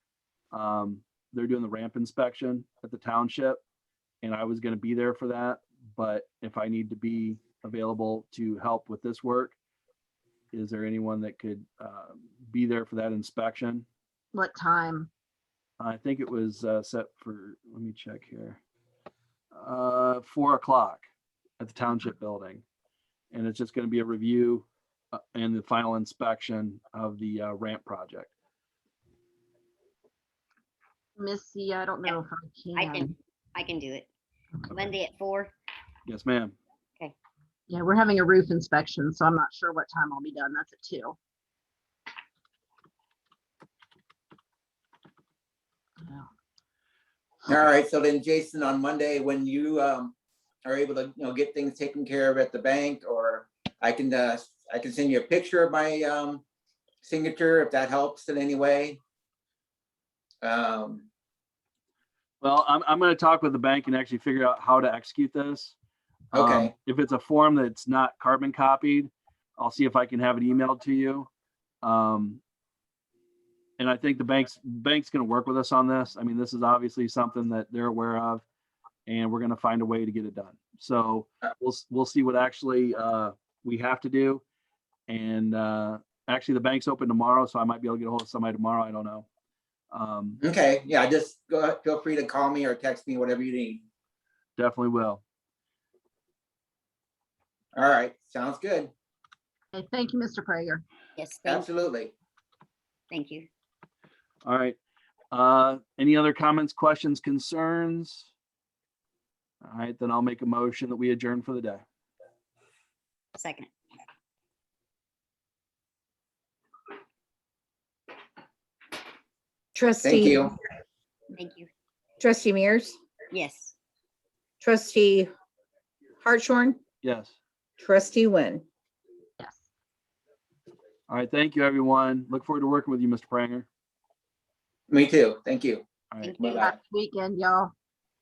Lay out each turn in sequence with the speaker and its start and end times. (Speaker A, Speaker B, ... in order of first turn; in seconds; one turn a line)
Speaker A: 0.5-3.6
Speaker A: 4.2-9.6
Speaker A: 10.5-13.9
Speaker B: 14.3-15.1
Speaker A: 15.8-18.6
Speaker A: 19.5-21.0
Speaker A: 21.6-22.6
Speaker A: 23.3-28.3
Speaker B: 31.2-33.1
Speaker C: 32.8-34.1
Speaker C: 34.7-35.5
Speaker A: 36.1-36.5
Speaker B: 37.7-41.2
Speaker B: 46.0-46.3
Speaker D: 47.5-50.1
Speaker D: 50.6-56.4
Speaker D: 57.0-59.0
Speaker D: 60.4-61.1
Speaker A: 62.4-65.8
Speaker A: 66.3-71.3
Speaker D: 66.3-66.7
Speaker A: 71.8-72.4
Speaker A: 73.8-78.4
Speaker A: 79.1-84.4
Speaker A: 85.1-89.3
Speaker A: 89.9-90.4
Speaker D: 90.4-93.8
Speaker A: 94.6-95.2
Speaker D: 97.8-98.9
Speaker B: 99.7-100.8
Speaker C: 101.2-101.7
Speaker D: 101.5-102.1
Speaker C: 103.1-103.5
Speaker A: 104.5-104.8
Speaker A: 105.3-108.3
Speaker A: 109.6-111.8
Speaker C: 113.4-113.7
Speaker E: 119.8-120.5
Speaker D: 120.0-120.5
Speaker C: 121.3-121.7
Speaker E: 122.2-123.0
Speaker C: 123.3-123.7
Speaker E: 124.6-125.3
Speaker E: 126.2-126.8
Speaker A: 127.0-127.4
Speaker E: 127.8-128.6
Speaker B: 129.4-129.7
Speaker A: 131.1-133.7
Speaker D: 134.9-135.8
Speaker C: 136.2-136.6
Speaker D: 136.4-136.7
Speaker B: 136.6-137.7